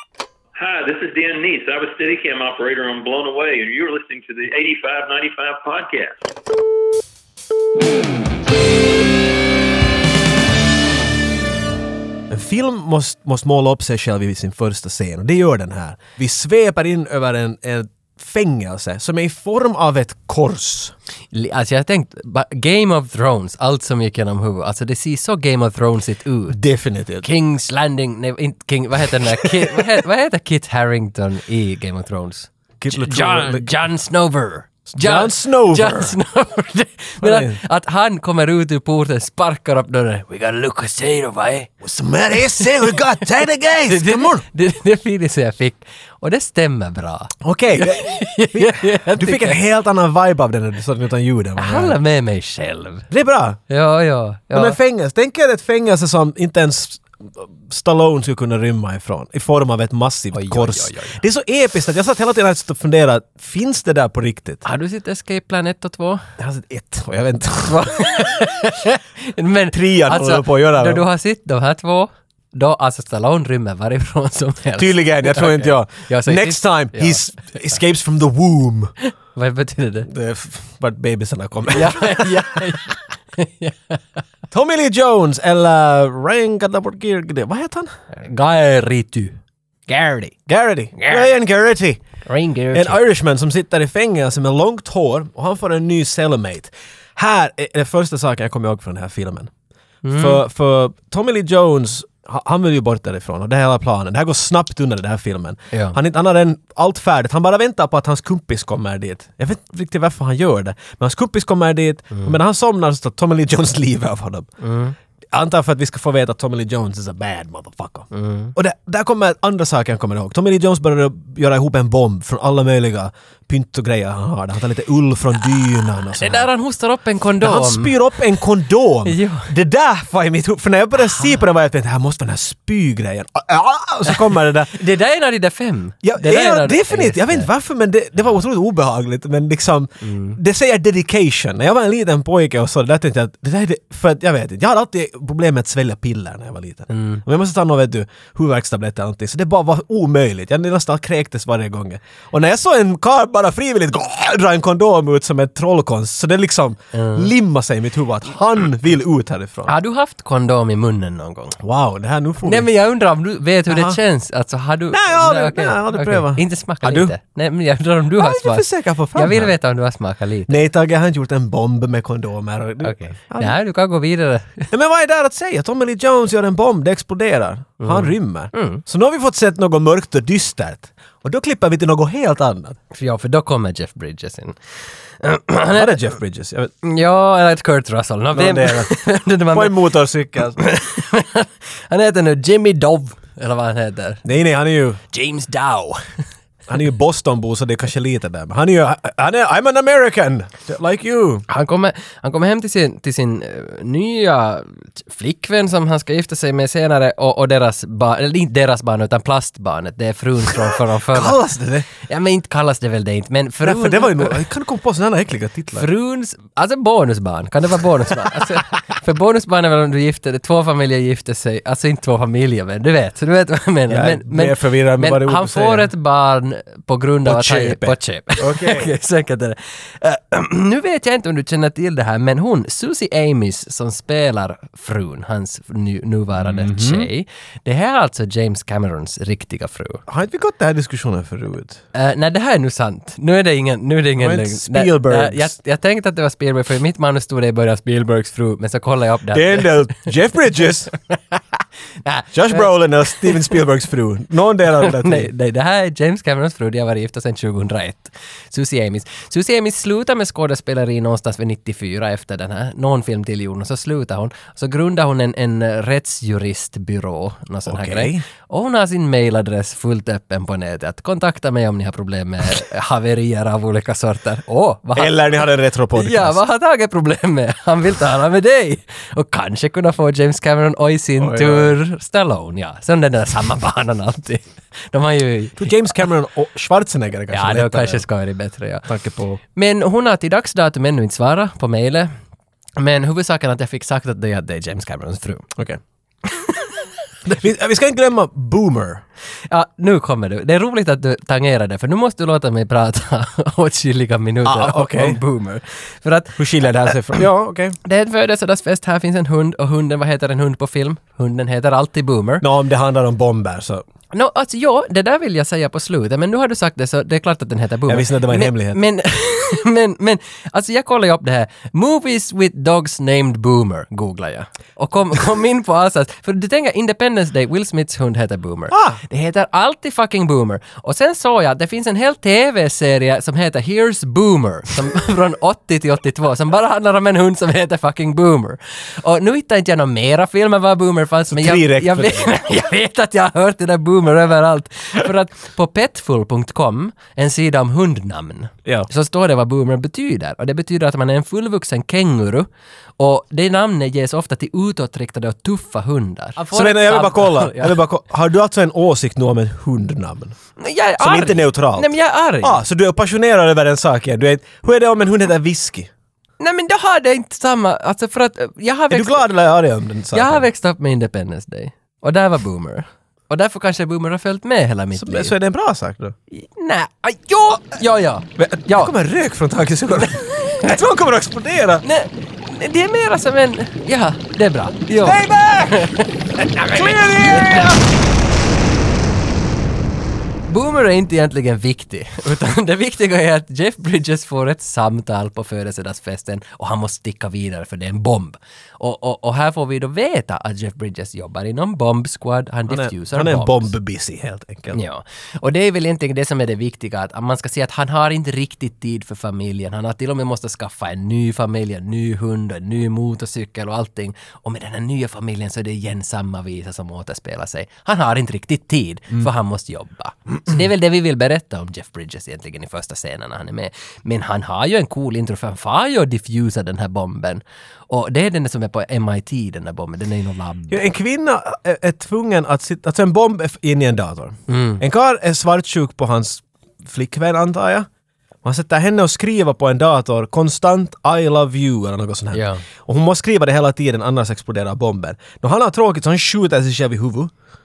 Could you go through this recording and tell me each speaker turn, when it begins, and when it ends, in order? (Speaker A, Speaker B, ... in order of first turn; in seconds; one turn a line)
Speaker A: 0.6-6.3
Speaker B: 12.3-20.9
Speaker C: 21.3-26.6
Speaker B: 26.5-27.3
Speaker C: 27.2-41.7
Speaker B: 29.4-29.8
Speaker B: 32.8-33.7
Speaker B: 34.9-36.1
Speaker B: 37.2-37.6
Speaker B: 41.8-44.4
Speaker C: 42.5-43.0
Speaker C: 43.9-49.6
Speaker B: 47.4-52.0
Speaker C: 51.6-53.1
Speaker B: 53.1-53.6
Speaker C: 53.7-54.8
Speaker B: 54.5-64.6
Speaker C: 60.3-61.2
Speaker C: 64.6-66.2
Speaker B: 66.4-67.9
Speaker C: 67.6-77.2
Speaker B: 69.7-71.0
Speaker B: 74.8-78.9
Speaker C: 79.0-80.1
Speaker B: 80.1-82.7
Speaker C: 81.7-84.2
Speaker B: 84.5-87.9
Speaker C: 88.1-89.4
Speaker C: 89.9-90.4
Speaker B: 90.5-92.0
Speaker C: 91.0-91.3
Speaker C: 92.2-93.0
Speaker B: 92.7-99.5
Speaker C: 100.0-100.4
Speaker B: 100.1-114.5
Speaker C: 114.6-114.9
Speaker B: 115.3-126.5
Speaker C: 118.1-118.5
Speaker C: 125.6-128.3
Speaker B: 127.4-134.7
Speaker C: 129.0-129.5
Speaker C: 134.7-137.5
Speaker B: 136.0-159.7
Speaker C: 140.0-140.4
Speaker C: 146.9-147.2
Speaker C: 156.9-157.3
Speaker C: 159.7-161.6
Speaker B: 161.6-162.7
Speaker C: 162.4-170.6
Speaker B: 163.7-164.0
Speaker B: 164.9-167.1
Speaker B: 168.2-169.5
Speaker B: 170.5-173.6
Speaker C: 172.8-174.7
Speaker B: 174.7-182.8
Speaker C: 177.8-178.8
Speaker C: 182.9-184.6
Speaker C: 185.2-186.0
Speaker B: 185.7-186.7
Speaker C: 186.8-189.9
Speaker B: 188.3-188.9
Speaker B: 189.5-190.6
Speaker C: 190.6-194.2
Speaker B: 194.2-195.0
Speaker C: 195.1-196.2
Speaker B: 196.7-201.4
Speaker C: 201.5-211.4
Speaker B: 210.7-211.9
Speaker C: 211.9-214.4
Speaker B: 213.6-215.9
Speaker C: 215.7-240.0
Speaker B: 223.9-225.9
Speaker B: 227.2-228.9
Speaker B: 236.3-237.1
Speaker B: 240.1-241.8
Speaker C: 241.9-250.1
Speaker B: 244.2-245.5
Speaker B: 249.3-250.9
Speaker C: 250.9-253.5
Speaker B: 252.3-255.3
Speaker C: 254.8-275.1
Speaker B: 267.6-268.2
Speaker B: 274.9-276.4
Speaker C: 275.9-285.7
Speaker B: 281.2-281.7
Speaker B: 285.6-288.0
Speaker C: 287.3-288.9
Speaker B: 288.9-289.4
Speaker C: 289.5-292.1
Speaker C: 292.8-295.5
Speaker B: 295.5-295.8
Speaker C: 296.2-296.9
Speaker B: 297.2-299.0
Speaker C: 299.5-306.4
Speaker B: 304.4-305.2
Speaker B: 306.4-307.8
Speaker C: 307.8-312.4
Speaker B: 312.4-313.8
Speaker C: 314.1-352.5
Speaker B: 317.9-318.8
Speaker B: 328.7-329.0
Speaker B: 341.3-342.3
Speaker C: 353.0-357.8
Speaker B: 356.5-360.4
Speaker C: 360.6-362.6
Speaker B: 361.0-365.9
Speaker C: 366.4-369.3
Speaker B: 368.9-370.5
Speaker C: 370.1-375.3
Speaker B: 374.9-376.1
Speaker C: 376.3-378.9
Speaker B: 378.4-381.8
Speaker C: 380.0-380.7
Speaker C: 381.8-387.8
Speaker B: 385.0-385.9
Speaker B: 386.7-387.8
Speaker C: 390.5-403.7
Speaker B: 402.7-404.8
Speaker C: 404.7-430.8
Speaker B: 430.7-437.9
Speaker C: 434.5-434.8
Speaker B: 438.4-447.3
Speaker C: 442.3-442.6